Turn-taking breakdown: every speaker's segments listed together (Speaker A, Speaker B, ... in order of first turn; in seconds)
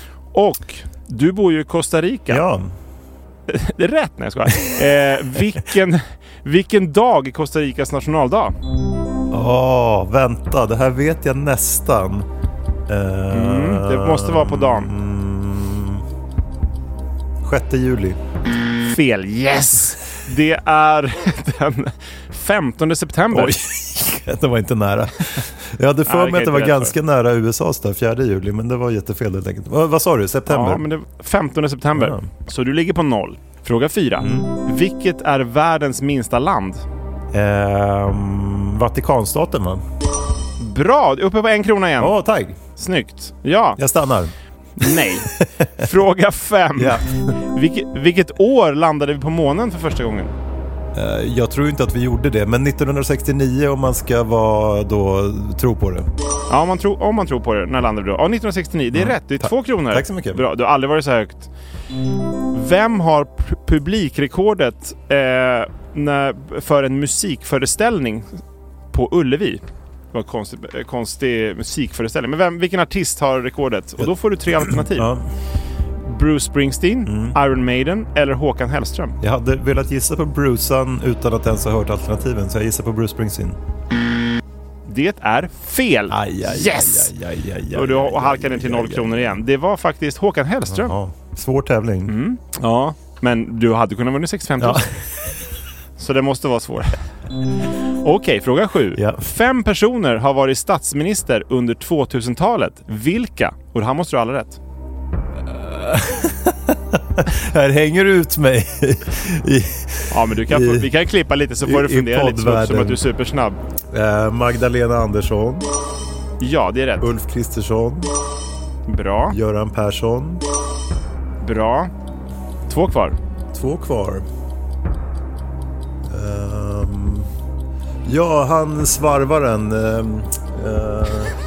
Speaker A: 0.3-2.5, 3.5-8.6, 13.3-14.9, 18.7-23.6, 26.1-27.0, 30.5-36.8, 40.6-42.2, 42.8-43.8, 44.8-50.3, 56.5-61.5, 62.5-68.4, 68.9-75.1, 76.0-79.2, 84.9-87.1, 87.7-91.0, 92.1-94.9, 96.0-97.0, 98.0-104.6, 110.1-113.6, 116.4-117.1, 118.9-119.4, 121.4-121.9, 122.7-123.2
Speaker B: 2.3-2.7, 4.5-4.8, 9.3-12.3, 12.9-16.0, 17.4-18.2, 23.3-30.8, 31.9-32.3, 34.2-34.5, 37.3-39.8, 42.0-42.6, 43.8-45.9, 46.8-47.4, 50.9-56.1, 58.9-60.4, 74.0-75.2, 77.1-77.4, 79.2-83.6, 86.1-89.4, 90.7-92.2, 94.6-95.1, 99.0-99.2, 105.5-110.9, 111.6-113.0, 113.9-115.7, 117.0-118.1, 119.3-120.4, 123.5-124.2, 126.1-127.3, 128.1-131.3